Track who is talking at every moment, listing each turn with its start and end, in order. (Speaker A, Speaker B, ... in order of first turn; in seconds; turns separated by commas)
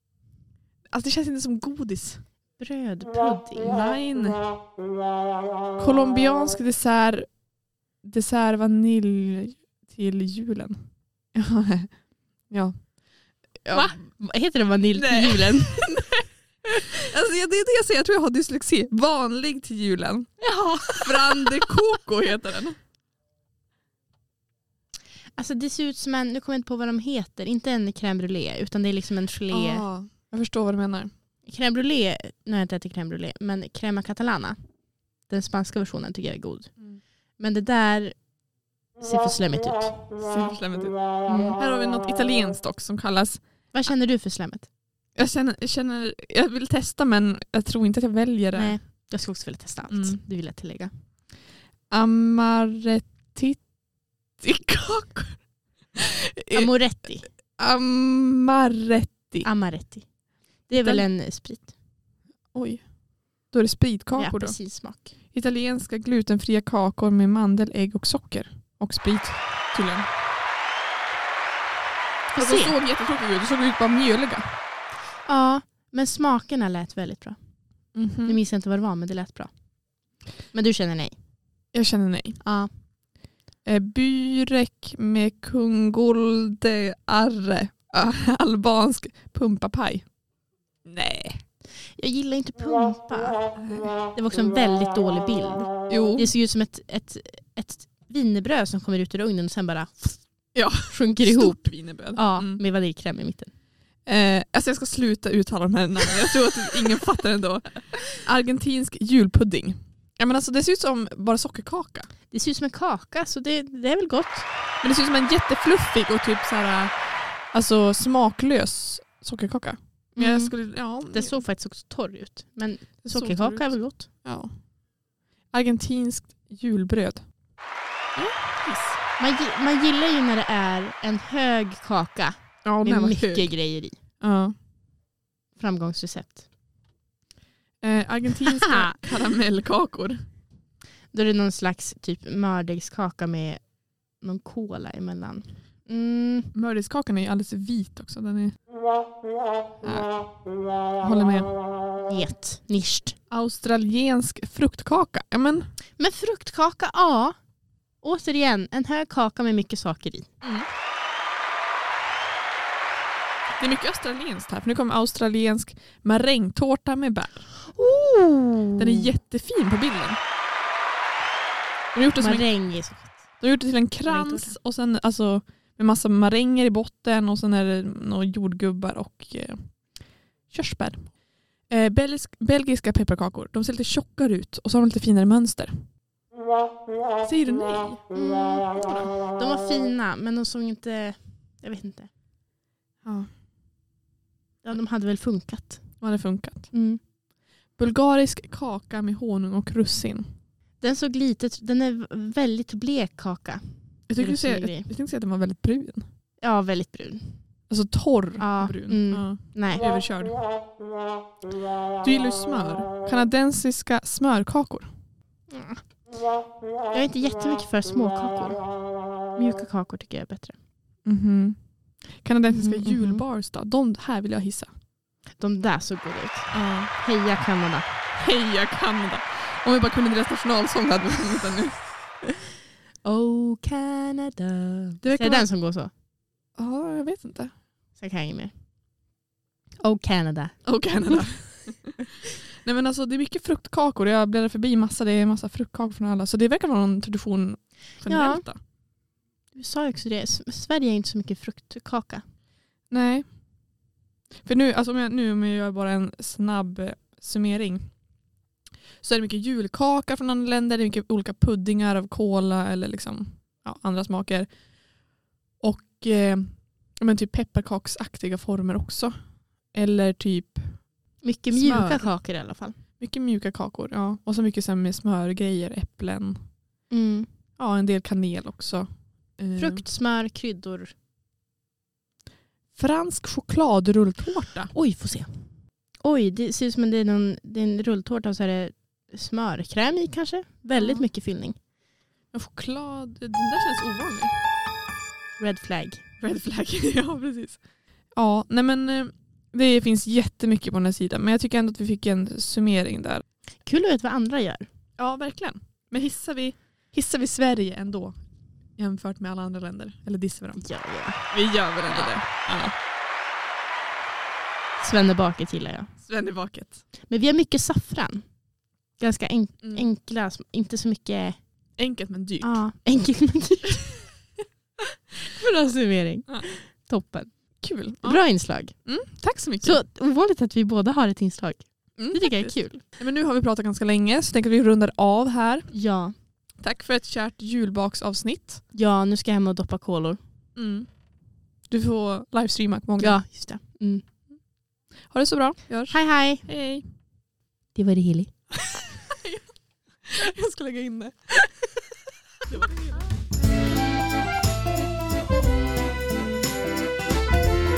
Speaker A: 0.9-2.2, Speaker B: 2.6-3.8, Speaker A: 3.6-4.5, Speaker A: 5.8-7.4, Speaker A: 8.0-12.9, Speaker A: 13.6-14.2, Speaker B: 13.7-15.9, Speaker A: 14.9-16.3, Speaker A: 17.0-22.8, Speaker B: 20.4-21.6, Speaker B: 25.4-29.9, Speaker A: 29.5-31.1, Speaker B: 31.4-34.6, Speaker B: 35.2-38.4, Speaker B: 39.0-40.1, Speaker A: 40.2-43.9, Speaker B: 41.3-41.6, Speaker B: 43.7-44.7, Speaker A: 45.1-48.8, Speaker B: 48.5-50.9, Speaker A: 49.9-50.2, Speaker A: 51.9-53.7, Speaker A: 54.4-59.5, Speaker B: 56.5-57.3, Speaker B: 59.4-60.1, Speaker B: 60.6-61.7, Speaker A: 60.8-61.1, Speaker A: 62.5-64.6, Speaker B: 64.2-65.1, Speaker A: 65.3-70.1, Speaker B: 72.3-72.8, Speaker A: 72.4-74.5, Speaker B: 75.3-77.4, Speaker A: 77.9-78.4, Speaker B: 78.2-79.5, Speaker B: 80.5-81.2, Speaker A: 81.7-82.5, Speaker A: 83.6-90.1, Speaker A: 90.8-91.4, Speaker B: 91.9-93.6, Speaker A: 93.6-93.9, Speaker B: 94.1-103.5, Speaker A: 95.9-96.3, Speaker A: 100.5-102.6, Speaker A: 104.1-112.1, Speaker B: 112.3-114.5, Speaker A: 114.8-121.4, Speaker B: 120.2-124.1, Speaker A: 123.0-124.8, Speaker A: 125.5-127.3, Speaker A: 128.2-129.0, Speaker B: 129.1-134.0, Speaker A: 132.6-133.6, Speaker A: 134.2-134.6, Speaker B: 135.6-136.4, Speaker A: 137.8-140.2, Speaker B: 138.6-139.0, Speaker B: 141.1-146.5, Speaker A: 146.5-148.6, Speaker A: 149.8-151.6, Speaker B: 152.1-153.2, Speaker A: 153.3-155.7, Speaker B: 156.0-157.4, Speaker B: 158.0-160.3, Speaker A: 160.4-160.7, Speaker A: 163.6-167.5, Speaker B: 167.7-169.1, Speaker A: 168.8-170.2, Speaker A: 171.9-172.5, Speaker B: 172.2-173.2, Speaker A: 173.4-185.8, Speaker B: 174.1-174.6, Speaker A: 187.2-188.0, Speaker B: 188.1-192.1, Speaker A: 193.0-193.3, Speaker B: 194.6-196.0, Speaker A: 196.0-196.7, Speaker B: 196.7-197.0, Speaker A: 197.8-200.3, Speaker B: 200.8-204.9, Speaker A: 204.1-206.1, Speaker B: 206.4-207.4, Speaker A: 207.7-210.4, Speaker B: 208.4-209.8, Speaker A: 212.0-214.9, Speaker B: 215.5-216.1, Speaker B: 216.9-220.6, Speaker A: 221.0-224.7, Speaker B: 222.5-223.2, Speaker B: 225.3-227.9, Speaker A: 226.5-226.9, Speaker A: 228.1-231.9, Speaker B: 233.0-235.9, Speaker A: 235.0-235.5, Speaker A: 236.6-237.6, Speaker B: 238.0-238.5, Speaker B: 239.8-241.3, Speaker A: 240.7-248.6, Speaker B: 248.1-248.5, Speaker B: 249.5-252.2, Speaker A: 252.9-253.3, Speaker A: 254.4-257.9, Speaker A: 259.0-264.5, Speaker A: 265.6-272.2, Speaker B: 271.2-272.8, Speaker A: 273.0-276.5, Speaker B: 276.9-277.3, Speaker A: 277.6-279.9, Speaker B: 279.6-280.9, Speaker A: 282.7-284.7, Speaker B: 284.7-285.4, Speaker B: 286.0-291.6, Speaker A: 290.8-291.1, Speaker A: 292.3-294.4, Speaker B: 295.4-296.0, Speaker A: 296.2-297.6, Speaker A: 298.1-303.2, Speaker B: 303.6-304.7, Speaker A: 305.0-308.1, Speaker A: 308.8-310.6, Speaker B: 310.6-311.3, Speaker A: 311.2-312.7, Speaker B: 311.9-312.1, Speaker B: 314.8-315.9, Speaker A: 316.0-316.8, Speaker B: 317.1-318.3, Speaker B: 319.0-321.5, Speaker A: 319.6-319.9, Speaker A: 321.8-322.6, Speaker B: 322.4-324.0, Speaker B: 325.2-328.9, Speaker A: 327.6-329.8, Speaker B: 329.6-332.8, Speaker A: 332.0-335.7, Speaker B: 335.7-336.1, Speaker A: 336.6-338.6, Speaker B: 338.7-340.2, Speaker A: 340.6-340.9, Speaker A: 341.7-343.2, Speaker B: 343.0-344.1, Speaker A: 345.0-346.8, Speaker B: 345.9-346.5, Speaker B: 347.8-348.3, Speaker A: 349.1-349.5, Speaker A: 350.0-351.6, Speaker A: 352.5-353.1